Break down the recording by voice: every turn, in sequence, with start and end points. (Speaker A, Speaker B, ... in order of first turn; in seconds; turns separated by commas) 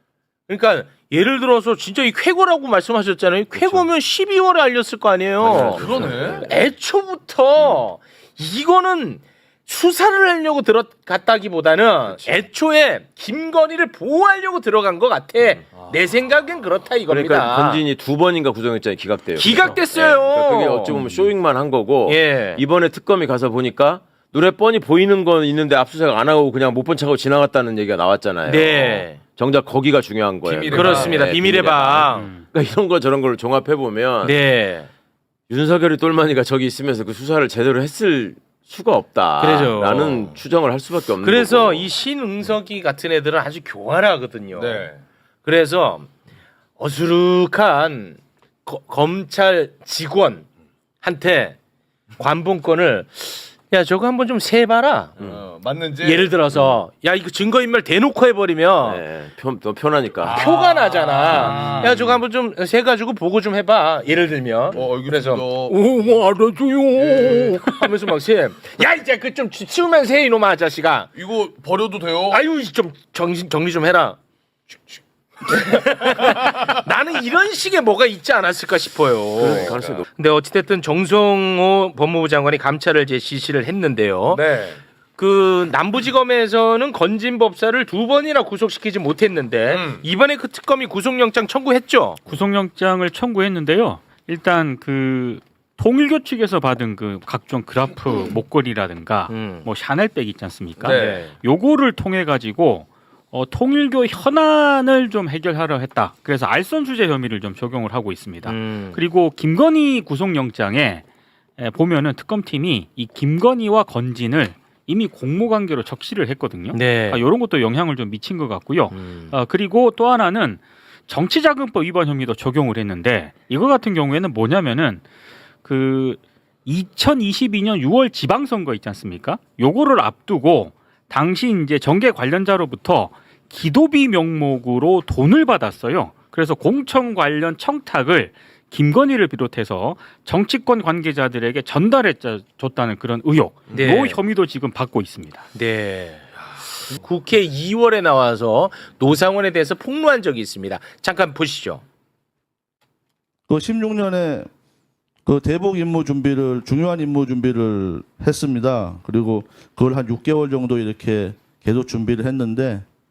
Speaker A: 0.5-17.8, Speaker B: 3.6-3.8, Speaker C: 5.5-6.6, Speaker B: 5.5-6.2, Speaker B: 17.1-34.4, Speaker A: 19.4-21.0, Speaker A: 22.1-22.6, Speaker A: 28.5-29.2, Speaker C: 30.5-31.2, Speaker A: 30.5-32.3, Speaker D: 32.1-32.5, Speaker A: 34.2-34.9, Speaker B: 35.5-41.9, Speaker A: 39.4-40.4, Speaker A: 41.2-44.9, Speaker C: 44.5-45.0, Speaker A: 45.5-46.1, Speaker A: 46.8-50.5, Speaker A: 51.0-51.6, Speaker A: 52.2-55.2, Speaker C: 55.2-56.3, Speaker A: 56.0-59.0, Speaker B: 56.5-56.8, Speaker B: 58.8-60.4, Speaker C: 60.2-62.2, Speaker A: 60.2-71.1, Speaker C: 64.7-65.8, Speaker C: 67.0-67.7, Speaker C: 71.2-72.4, Speaker A: 72.3-74.2, Speaker A: 75.5-84.4, Speaker B: 79.4-80.1, Speaker C: 79.5-80.0, Speaker C: 84.3-84.8, Speaker A: 85.2-92.2, Speaker C: 89.7-90.0, Speaker D: 92.3-111.0, Speaker A: 99.3-99.7, Speaker C: 100.8-101.2, Speaker A: 100.8-101.3, Speaker A: 108.4-109.0, Speaker D: 111.6-125.0, Speaker A: 116.7-117.2, Speaker A: 118.9-119.3, Speaker D: 125.6-145.5, Speaker A: 143.7-144.2, Speaker A: 145.5-146.3, Speaker A: 146.9-151.8, Speaker E: 153.5-154.5, Speaker E: 155.3-162.9